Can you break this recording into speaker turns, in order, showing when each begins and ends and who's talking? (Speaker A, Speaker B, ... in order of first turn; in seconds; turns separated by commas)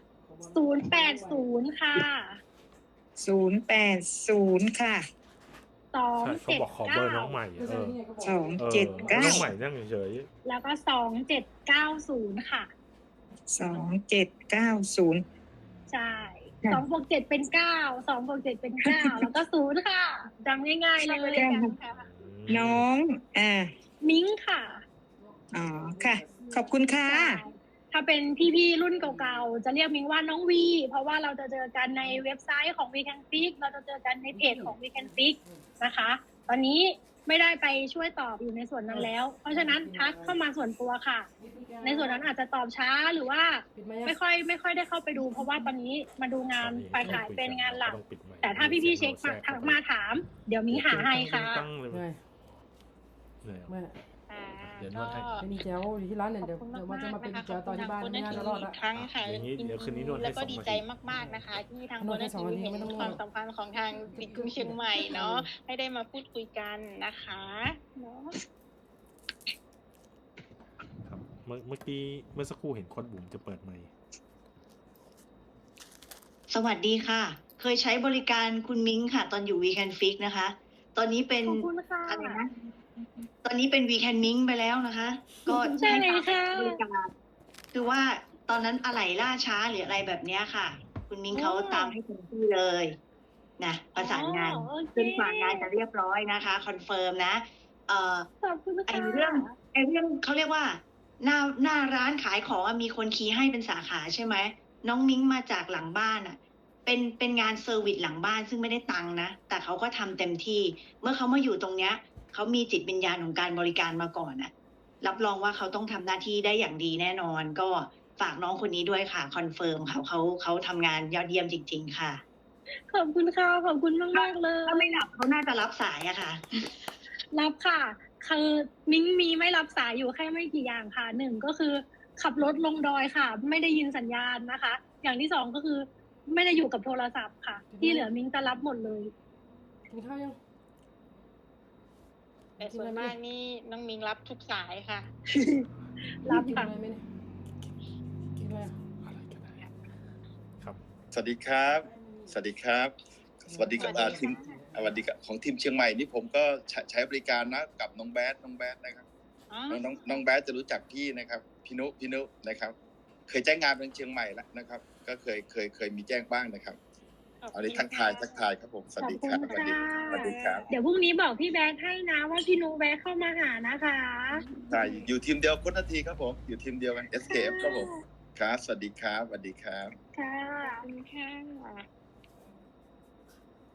Speaker A: 0.2-1.5, Speaker B: 0.5-2.4, Speaker C: 3.2-5.0, Speaker B: 5.9-7.4, Speaker D: 6.2-8.0, Speaker A: 7.5-9.5, Speaker C: 8.2-9.5, Speaker D: 8.6-10.3, Speaker B: 10.4-12.7, Speaker C: 13.5-15.2, Speaker B: 15.9-21.6, Speaker C: 18.8-19.3, Speaker E: 21.0-22.1, Speaker C: 21.3-21.7, Speaker D: 21.9-22.9, Speaker C: 22.5-23.7, Speaker B: 24.0-24.8, Speaker A: 25.1-27.4, Speaker C: 25.5-27.4, Speaker B: 27.0-41.3, Speaker A: 28.9-29.5, Speaker A: 34.3-35.7, Speaker A: 38.9-40.4, Speaker A: 41.4-42.3, Speaker B: 41.8-51.7, Speaker A: 43.7-44.2, Speaker D: 46.6-49.8, Speaker D: 50.7-52.5, Speaker A: 51.9-52.2, Speaker D: 53.4-53.8, Speaker A: 53.7-54.0, Speaker E: 54.3-55.5, Speaker D: 54.6-55.4, Speaker A: 55.4-58.8, Speaker E: 56.4-68.3, Speaker D: 58.3-61.4, Speaker A: 62.0-63.2, Speaker A: 63.9-65.5, Speaker D: 71.0-73.9, Speaker F: 76.5-82.7, Speaker B: 81.4-82.4, Speaker F: 83.4-87.1, Speaker B: 85.5-86.8, Speaker F: 87.7-93.0, Speaker B: 91.3-91.9, Speaker F: 93.6-98.3, Speaker B: 94.0-95.7, Speaker B: 98.4-99.5, Speaker F: 98.9-122.2, Speaker B: 122.9-124.9, Speaker F: 124.1-126.4, Speaker B: 127.3-139.1, Speaker A: 137.7-138.1, Speaker A: 139.9-140.4, Speaker E: 142.6-145.1, Speaker A: 142.6-143.2, Speaker B: 145.3-145.7, Speaker B: 146.2-146.7, Speaker A: 146.2-147.1, Speaker A: 148.4-148.8, Speaker D: 148.4-149.7, Speaker G: 151.1-152.9, Speaker A: 151.6-152.4, Speaker G: 153.4-159.0, Speaker A: 153.5-155.1, Speaker E: 153.8-154.5, Speaker E: 159.5-160.2, Speaker G: 159.7-162.7, Speaker G: 163.3-166.8, Speaker E: 167.4-168.5, Speaker G: 167.5-170.7, Speaker B: 169.0-174.4, Speaker E: 169.5-170.7, Speaker E: 174.3-175.0, Speaker G: 174.7-179.9, Speaker B: 177.3-178.0, Speaker B: 180.1-180.8, Speaker E: 180.6-181.8